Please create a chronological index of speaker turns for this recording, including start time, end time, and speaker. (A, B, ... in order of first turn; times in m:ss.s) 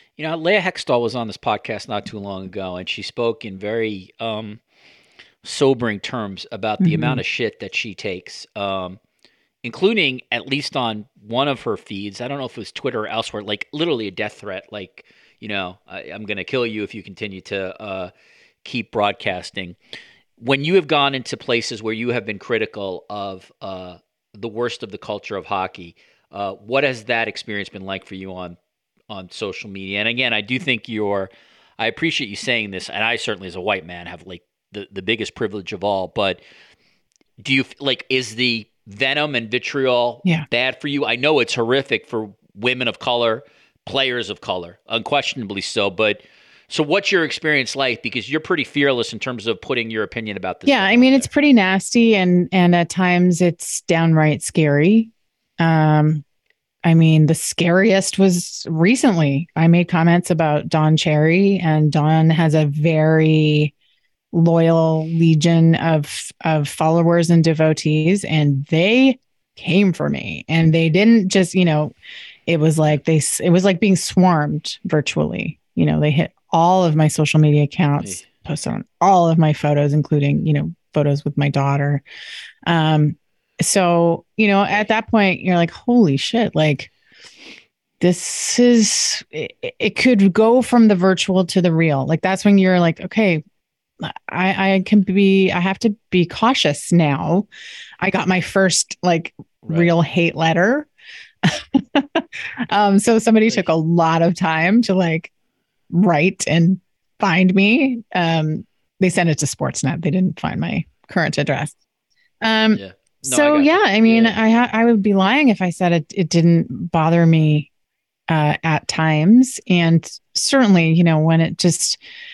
0:00.2-0:04.6 A
0:05.4-0:09.0 A
0:06.8-0:07.2 B
0:09.6-0:18.1 A
0:18.6-0:19.8 A
0:20.4-0:28.6 A
0:29.1-0:36.4 A
0:37.4-0:51.3 A
0:50.6-0:56.2 B
0:56.8-1:03.7 B
1:04.3-1:11.9 B
1:12.5-1:22.0 B
1:18.0-1:18.2 A
1:22.6-1:26.9 B
1:28.0-1:33.4 B
1:34.0-1:37.5 B
1:38.0-1:40.9 B
1:39.6-1:39.9 A
1:41.4-1:45.3 B
1:45.9-1:51.7 B
1:52.4-1:57.7 B
1:52.7-1:54.4 A
1:58.3-2:02.0 B